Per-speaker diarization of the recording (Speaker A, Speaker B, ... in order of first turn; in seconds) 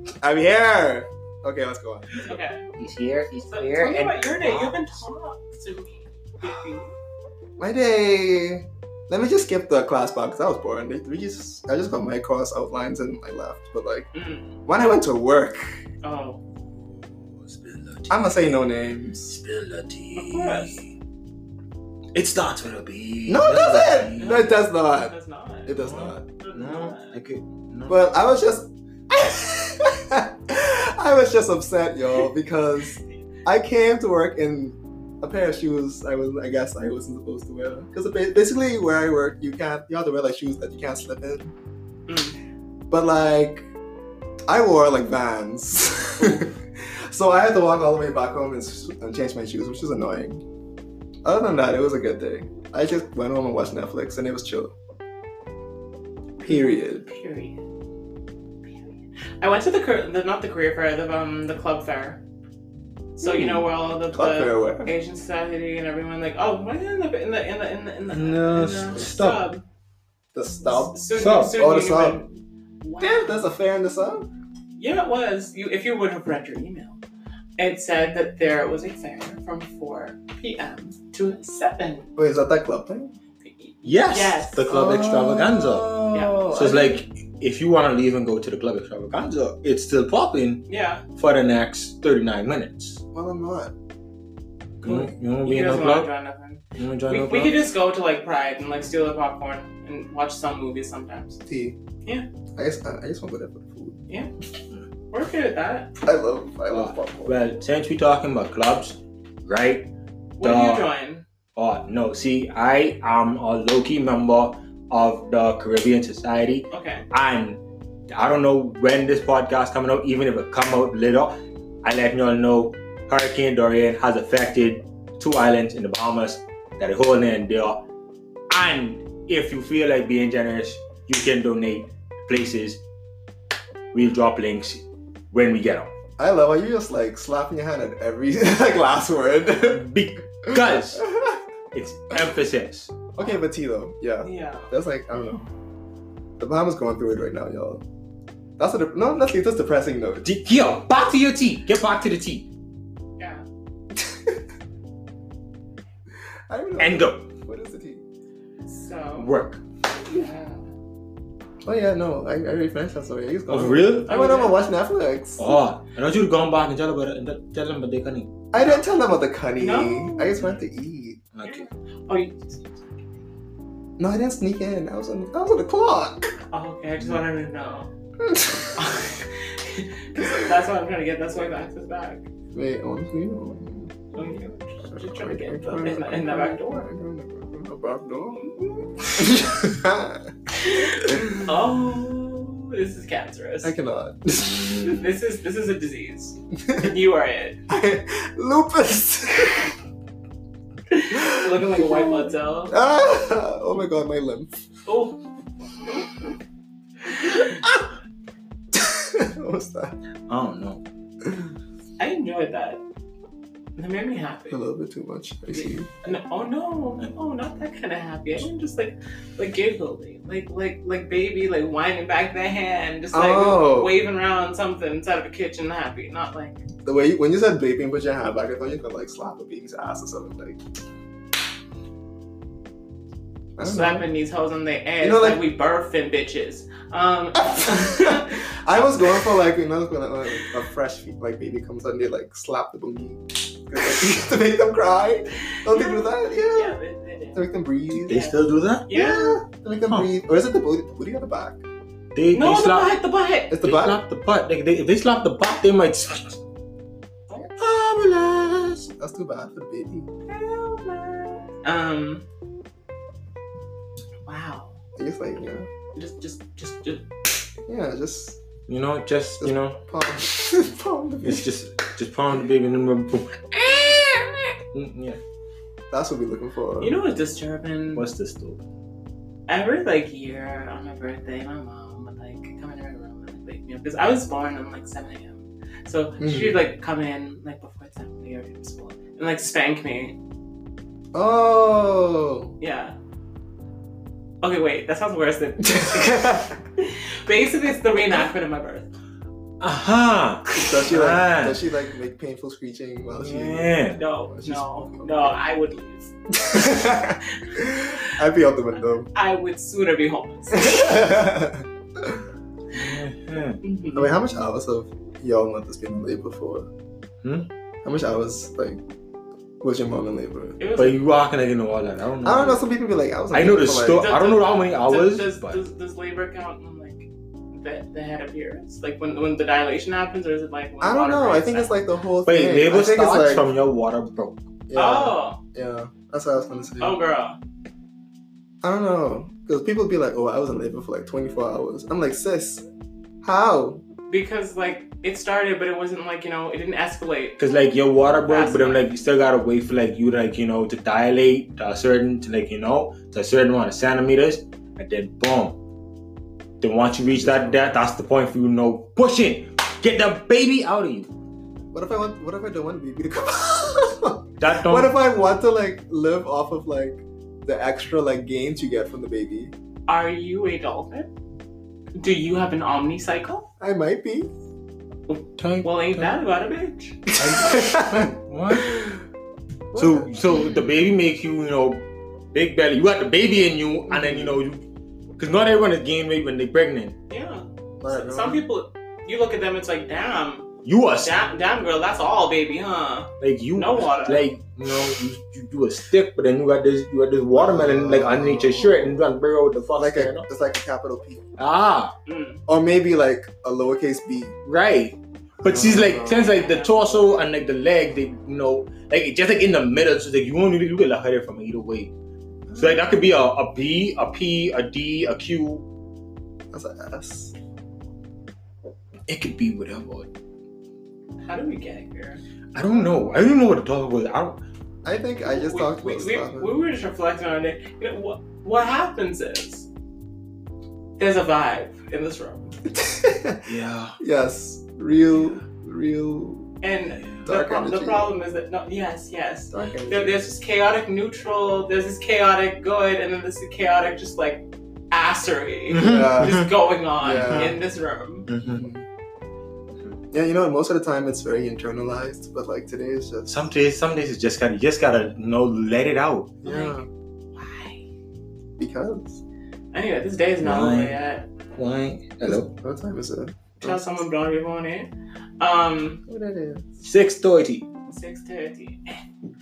Speaker A: 0.2-2.1, 7.6-14.1, 14.7-15.8, 18.1-19.4, 23.3-25.1, 25.7-26.2, 27.9-41.5, 42.9-43.7, 44.5-50.4, 51.2-54.7, 56.4-57.0, 63.3-64.9, 70.3-72.2, 73.0-74.3, 82.2-83.2, 84.7-87.0, 93.1-93.7, 101.5-101.8, 102.6-104.0, 106.0-107.4, 136.2-139.9, 140.4-141.4, 143.2-145.5, 146.4-147.8, 148.6-150.3, 154.0-154.4, 156.5-158.0, 161.7-165.6, 168.5-171.2, 174.0-176.4, 178.2-178.8, 180.2-180.5, 182.5-184.1, 184.9-190.3, 190.9-191.4, 193.6-195.0, 197.7-199.7, 201.1-204.5, 208.7-210.0, 214.5-215.9, 223.1-223.9, 226.8-230.6, 233.6-234.1, 235.0-235.4, 237.4-246.8, 247.3-248.2, 248.9-251.6, 253.5-254.0, 259.0-260.1, 265.0-265.7, 267.7-268.4, 269.4-271.4, 275.9-277.0, 286.2-286.6, 291.1-292.5, 295.6-296.5, 300.5-305.3, 306.3-309.1, 310.5-312.2, 313.9-316.7, 317.8-318.8, 319.6-320.6, 322.2-324.1, 330.8-333.5, 334.7-337.0, 338.6-342.6, 343.2-343.8, 357.2-357.6, 361.7-369.5, 373.6-374.3, 377.1-378.9, 379.7-380.7, 383.9-384.4, 387.8-388.5, 397.3-399.0, 399.8-401.3, 402.5-404.4, 405.5-406.2, 412.5-412.9, 416.5-417.3, 424.8-426.5, 432.7-433.4, 434.0-436.5, 437.2-438.1, 439.5-440.3, 445.8-446.5, 447.0-447.6, 448.5-448.9, 450.1-453.3, 456.4-456.9, 458.6-459.2, 462.2-463.8, 466.1-466.7
Speaker B: 2.2-2.7, 3.5-6.9, 14.1-14.6, 16.0-16.4, 20.1-20.8, 24.2-25.8, 26.4-27.1, 42.1-42.4, 56.4-57.6, 58.7-62.2, 63.2-69.6, 70.7-73.4, 74.8-77.0, 77.6-82.1, 83.4-84.7, 86.1-86.5, 90.7-91.0, 94.8-101.4, 105.1-105.9, 110.4-111.2, 116.7-117.0, 144.2-144.7, 153.2-153.4, 158.7-159.3, 160.1-160.7, 164.1-164.7, 168.6-168.9, 169.6-170.5, 171.4-173.3, 176.5-177.9, 178.7-182.3, 184.1-186.9, 188.3-188.9, 190.6-193.7, 194.8-197.6, 200.9-202.8, 204.9-205.2, 207.1-207.6, 212.0-212.8, 213.8-214.6, 215.5-226.6, 233.6-238.4, 245.5-247.5, 248.1-248.4, 248.9-249.4, 252.3-253.6, 260.3-262.2, 264.2-264.8, 265.9-267.1, 276.8-278.1, 279.5-290.2, 292.6-292.9, 294.4-298.9, 304.0-306.1, 307.2-308.1, 309.0-310.9, 313.6-314.1, 320.6-321.0, 324.0-331.8, 334.8-335.4, 336.8-337.4, 344.1-347.4, 348.2-348.8, 369.9-371.1, 372.0-373.4, 375.1-377.1, 387.1-394.2, 402.1-402.4, 406.0-407.2, 421.2-422.2, 425.3-429.7, 431.0-432.6, 436.6-448.3, 456.4-456.8, 457.4-457.9, 459.7-461.3, 463.6-466.0, 467.9-469.0
Speaker C: 2.8-4.8, 16.7-18.3, 19.3-20.9, 22.1-24.5, 25.8-28.0, 68.1-69.5, 71.1-71.6, 83.8-86.0, 86.5-93.0, 94.8-96.1, 96.8-97.7, 106.7-110.9, 111.5-127.8, 128.5-132.8, 133.9-135.9, 139.7-141.1, 141.7-142.9, 150.2-152.5, 156.8-157.3, 159.2-159.6, 163.5-164.3, 165.4-168.3, 171.3-171.7, 194.4-194.9, 210.3-210.8, 247.9-248.9, 252.2-253.0, 253.5-256.4, 257.6-258.9, 268.7-269.8, 271.2-275.2, 277.9-278.6, 299.6-301.7, 303.2-304.0, 312.7-313.6, 317.2-317.5, 320.8-322.7, 323.3-325.6, 332.2-334.4, 347.4-355.6, 356.6-361.1, 364.4-364.9, 375.4-376.2, 377.2-379.0, 379.8-384.6, 385.2-387.0, 390.6-391.1, 393.2-400.3, 401.4-401.9, 404.5-411.9, 412.6-415.6, 419.1-420.1, 422.5-424.4, 433.5-434.0, 435.1-435.4, 437.0-437.2, 445.7-446.5, 447.1-447.6, 448.3-448.7, 453.3-456.3, 460.4-461.0, 461.5-462.5, 466.8-467.7